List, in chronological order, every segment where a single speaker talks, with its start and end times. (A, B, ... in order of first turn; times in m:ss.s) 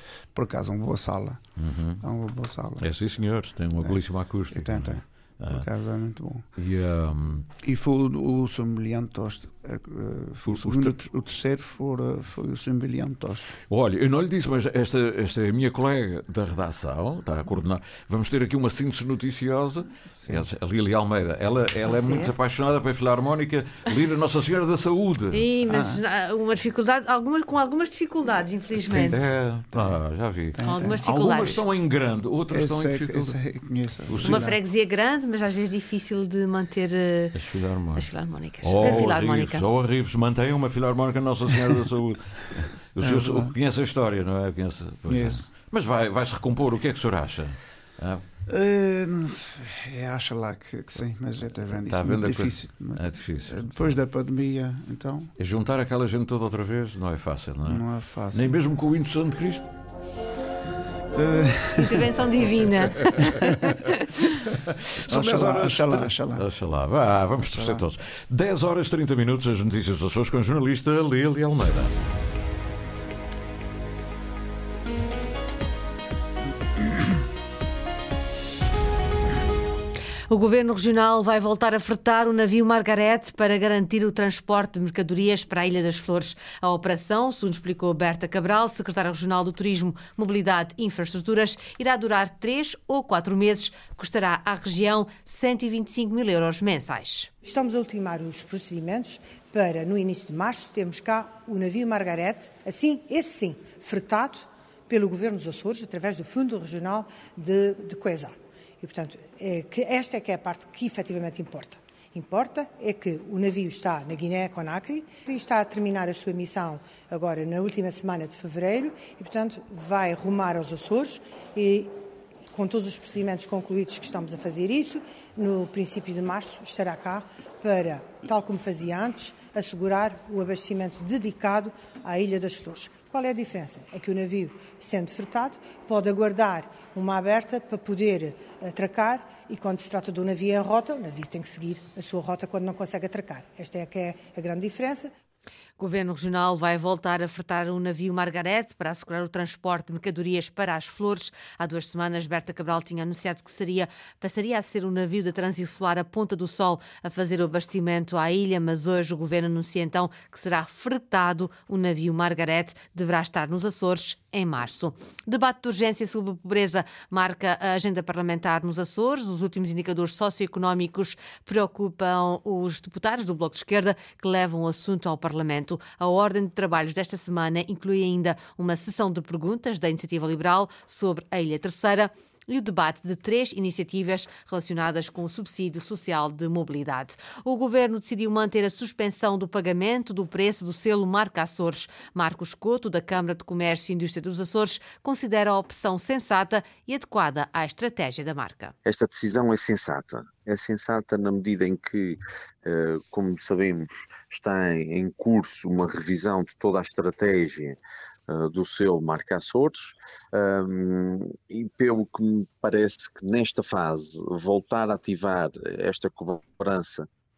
0:00.4-0:01.4 A
0:01.6-0:02.0 B
0:02.0-0:02.9 A
0:02.8-0:05.7 B
0:04.5-0:06.5 A
0:06.6-0:07.5 B
0:07.6-0:13.5 A
0:10.4-0:11.0 B
0:13.7-0:25.5 B
0:21.9-0:22.3 C
0:25.3-0:29.2 C
0:25.7-0:26.0 A
0:28.8-0:33.4 B
0:28.9-0:30.0 A
0:30.5-0:31.0 A
0:30.6-0:31.6 C
0:32.5-0:34.6 A
0:34.1-0:34.5 B
0:34.2-0:37.4 C
0:37.3-0:38.1 B
0:38.0-0:39.6 C
0:38.6-0:48.2 B
0:43.0-0:43.6 A
0:45.1-0:45.5 A
0:48.5-0:55.3 A
0:51.7-0:53.9 B
0:55.4-0:59.7 B
0:57.7-0:58.6 A
1:01.2-1:02.0 A
1:01.8-1:04.3 C
1:03.2-1:03.6 B
1:04.4-1:11.9 B
1:05.0-1:06.5 A
1:07.5-1:07.8 A
1:20.3-1:37.3 C
1:37.4-2:02.0 D
2:02.5-2:25.1 D
2:25.8-3:18.7 C
3:18.8-3:37.1 E